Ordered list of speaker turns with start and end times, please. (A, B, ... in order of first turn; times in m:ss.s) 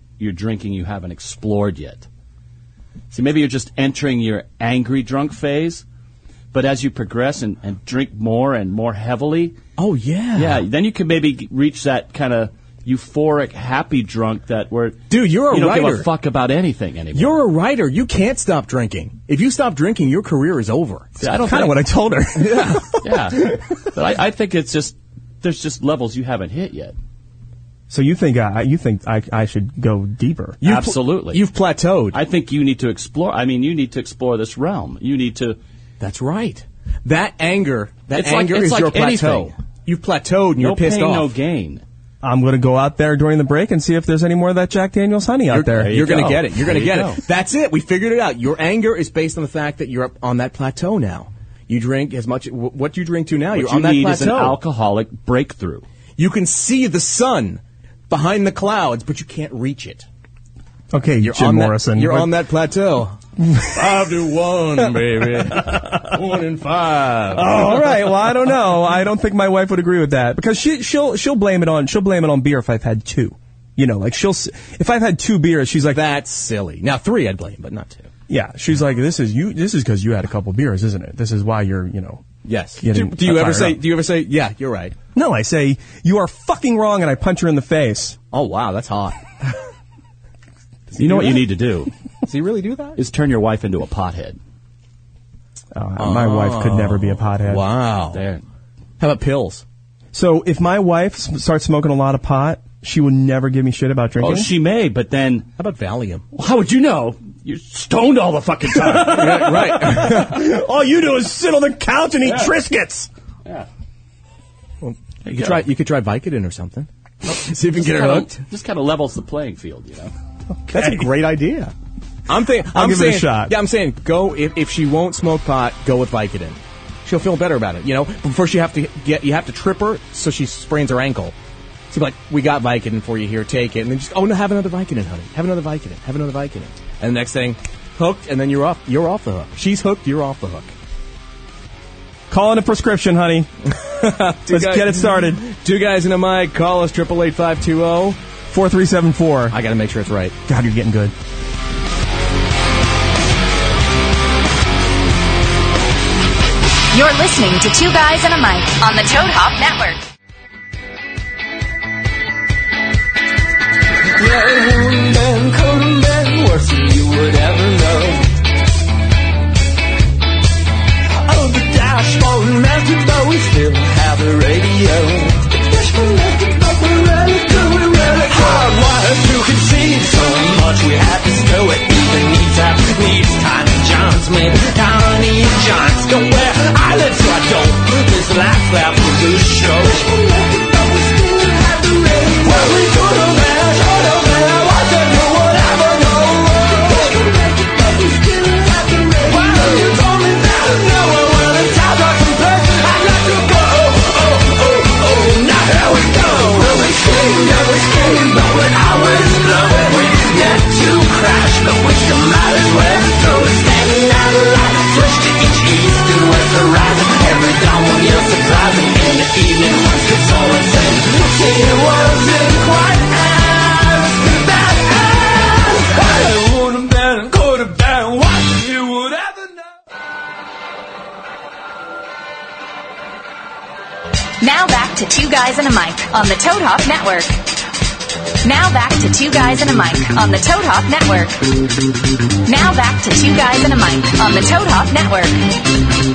0:00.2-0:02.0 A
0:03.1-0:05.8 A
0:06.5-0:09.6 A
0:09.8-0:10.6 B
0:10.4-0:17.4 A
0:15.1-0:16.1 B
0:17.1-0:21.2 B
0:21.2-0:21.7 A
0:21.2-0:23.6 C
0:22.4-0:22.9 B
0:23.0-0:26.9 A
0:27.9-0:30.6 C
0:30.6-0:31.4 A
0:30.6-0:32.2 B
0:32.1-0:35.6 A
0:36.0-0:41.3 B
0:38.1-0:39.5 A
0:40.6-0:41.8 A
0:42.2-0:46.0 C
0:45.5-0:54.6 B
0:45.8-0:47.2 A
0:53.5-0:55.8 A
0:56.2-1:00.0 B
1:00.9-1:02.3 C
1:01.2-1:07.8 B
1:03.4-1:03.9 C
1:05.5-1:05.8 C
1:07.3-1:16.0 C
1:15.9-1:18.1 B
1:18.3-1:22.2 C
1:22.4-1:24.9 B
1:22.8-1:23.8 C
1:25.1-1:28.2 C
1:28.3-1:29.2 B
1:30.9-1:31.5 B
1:31.0-1:31.9 A
1:32.2-1:33.0 B
1:33.0-1:34.4 A
1:35.7-1:37.6 C
1:36.0-1:38.2 B
1:38.1-1:38.4 A
1:39.0-1:39.6 B
1:40.1-1:44.5 C
1:44.2-1:45.5 A
1:45.6-1:46.2 B
1:46.3-1:49.6 A
1:48.8-1:53.1 C
1:49.0-1:50.4 B
1:54.8-1:58.4 B
1:55.3-1:55.6 A
1:57.8-2:00.1 A
2:00.7-2:01.1 C
2:00.7-2:01.7 B
2:02.3-2:11.3 B
2:02.6-2:03.5 C
2:11.9-2:20.7 B
2:22.3-2:23.5 C
2:23.8-2:28.2 B
2:24.4-2:25.4 C
2:28.5-2:29.6 C
2:29.5-2:30.3 B
2:30.5-2:31.1 C
2:36.9-2:40.0 D
2:44.1-2:48.3 E
2:51.2-3:49.6 E
3:54.4-3:57.4 D
3:58.4-4:01.5 D
4:02.4-4:05.4 D